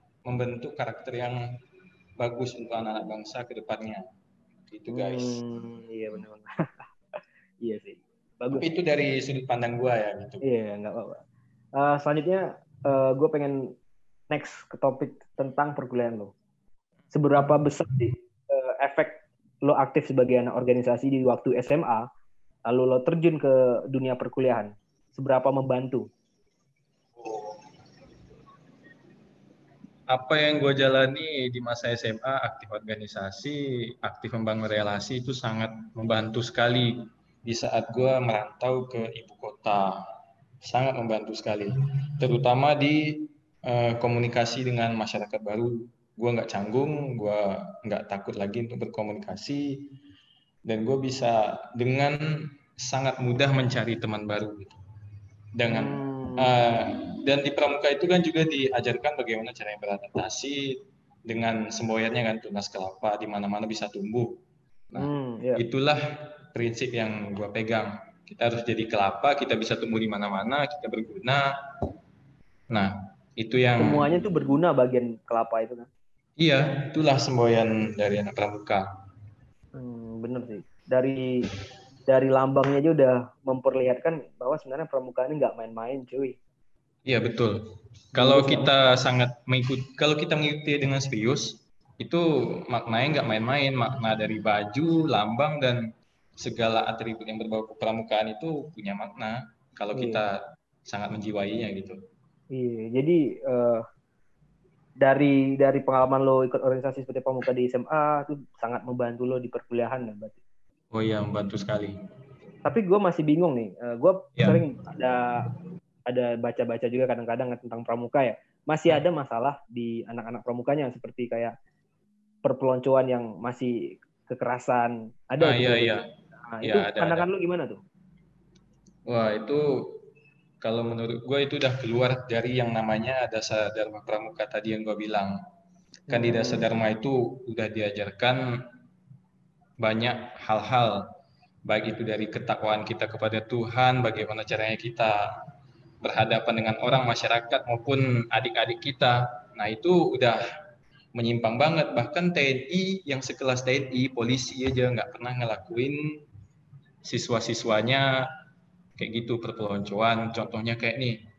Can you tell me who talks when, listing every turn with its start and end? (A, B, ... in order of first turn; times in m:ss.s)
0:00.2-0:01.4 A
0:02.2-0:04.0 A
0:04.7-0:05.4 A
0:04.9-0:06.5 B
0:07.6-0:08.6 B
0:08.5-0:10.4 A
0:10.4-0:11.2 B
0:11.8-0:13.7 B
0:14.3-0:16.3 B
0:17.1-0:22.0 B
0:22.7-0:26.1 B
0:27.2-0:27.6 A
0:30.1-0:40.0 A
0:40.6-0:49.9 A
0:50.7-0:54.8 A
0:55.6-1:04.4 A
0:55.7-0:56.6 B
1:04.9-1:06.0 A
1:05.0-1:05.6 B
1:06.5-1:11.4 A
1:12.7-1:14.2 A
1:13.8-1:15.9 B
1:16.4-1:18.9 A
1:19.8-1:21.5 B
1:22.1-1:26.4 B
1:27.1-1:27.6 A
1:28.1-1:35.8 A
1:28.1-1:28.7 B
1:36.4-1:42.0 A
1:39.9-1:40.2 B
1:42.5-1:43.8 B
1:45.0-1:50.4 B
1:50.9-1:52.0 A
1:52.6-1:55.4 B
1:56.1-2:01.5 B
2:02.4-2:06.0 B
2:05.4-2:06.0 A
2:06.5-2:07.8 B
2:06.6-2:07.2 A
2:09.0-2:10.0 A
2:10.6-2:15.4 A
2:16.1-2:16.7 B
2:16.1-2:18.4 A
2:19.8-2:21.0 A
2:21.6-2:25.2 A
2:26.0-2:30.4 A
2:31.1-2:36.2 A
2:37.0-2:38.3 A
2:39.0-2:41.2 A